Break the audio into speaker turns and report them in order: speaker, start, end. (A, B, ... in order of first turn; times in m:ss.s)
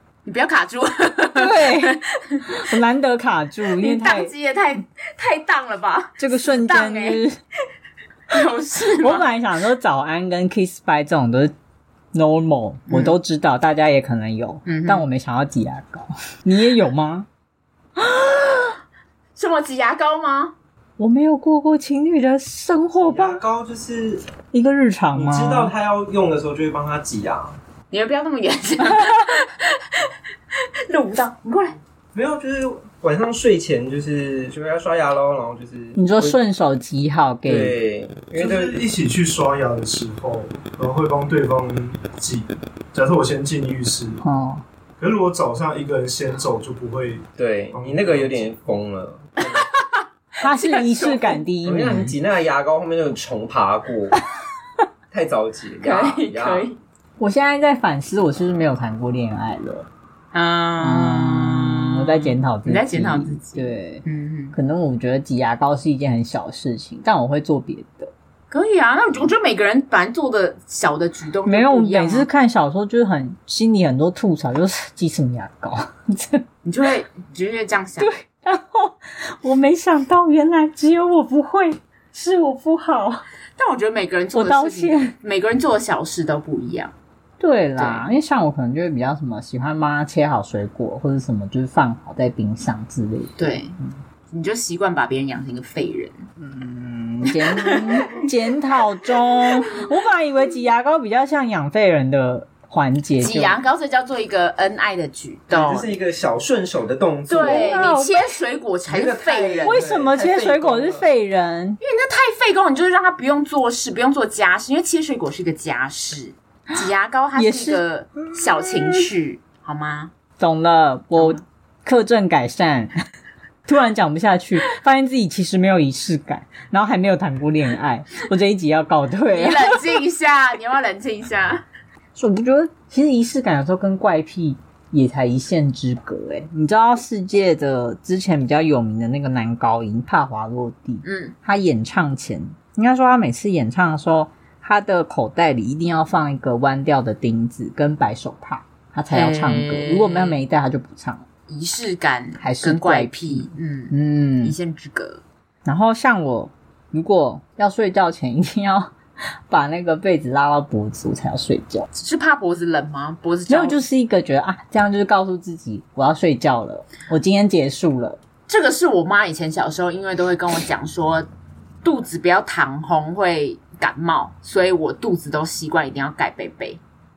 0:00.2-0:02.6 A
0:01.4-0:04.3 B
0:03.8-0:07.2 A
0:06.2-0:07.4 B
0:08.3-0:09.2 A
0:08.9-0:11.5 B
0:12.1-0:17.3 B
0:12.9-0:13.2 A
0:14.6-0:15.1 A
0:18.0-0:18.7 B
0:19.4-0:20.5 A
0:21.0-0:23.4 B
0:23.0-0:24.2 C
0:24.5-0:25.7 B
0:25.1-0:27.6 C
0:27.9-0:30.1 A
0:30.9-0:31.8 A
0:32.1-0:36.4 C
0:36.0-0:37.8 B
0:37.4-0:38.9 C
0:38.4-0:44.2 D
0:44.2-0:44.6 B
0:45.0-0:48.5 D
0:47.4-0:49.6 C
0:49.4-0:51.4 A
0:50.4-0:52.2 B
0:51.6-0:54.2 C
0:55.1-0:56.7 C
0:55.8-0:56.8 A
0:57.2-0:59.9 B
1:00.3-1:04.5 A
1:00.8-1:08.1 B
1:08.5-1:12.3 A
1:11.4-1:16.4 B
1:16.6-1:18.1 A
1:18.0-1:23.2 B
1:23.6-1:26.9 A
1:24.3-1:25.2 B
1:27.4-1:33.9 B
1:27.8-1:28.0 A
1:33.4-1:33.8 A
1:34.3-1:36.2 A
1:36.4-1:43.6 B
1:37.4-1:38.2 A
1:43.2-1:45.9 A
1:45.5-1:47.9 C
1:47.3-1:49.9 A
1:47.3-1:48.4 B
1:48.9-1:51.1 C
1:49.6-1:51.8 B
1:51.8-2:00.1 A
1:57.4-1:57.8 B
1:58.6-1:59.1 B
2:00.4-2:02.9 B
2:01.2-2:01.4 A
2:03.6-2:10.0 B
2:09.3-2:11.6 A
2:12.1-2:31.2 B
2:21.0-2:21.3 A
2:29.1-2:30.4 A
2:31.5-2:35.2 A
2:32.4-2:34.6 B
2:35.6-2:38.9 B
2:39.5-2:41.9 B
2:41.9-2:43.8 A
2:43.5-2:48.2 B
2:48.5-2:51.3 A
2:51.8-2:56.8 A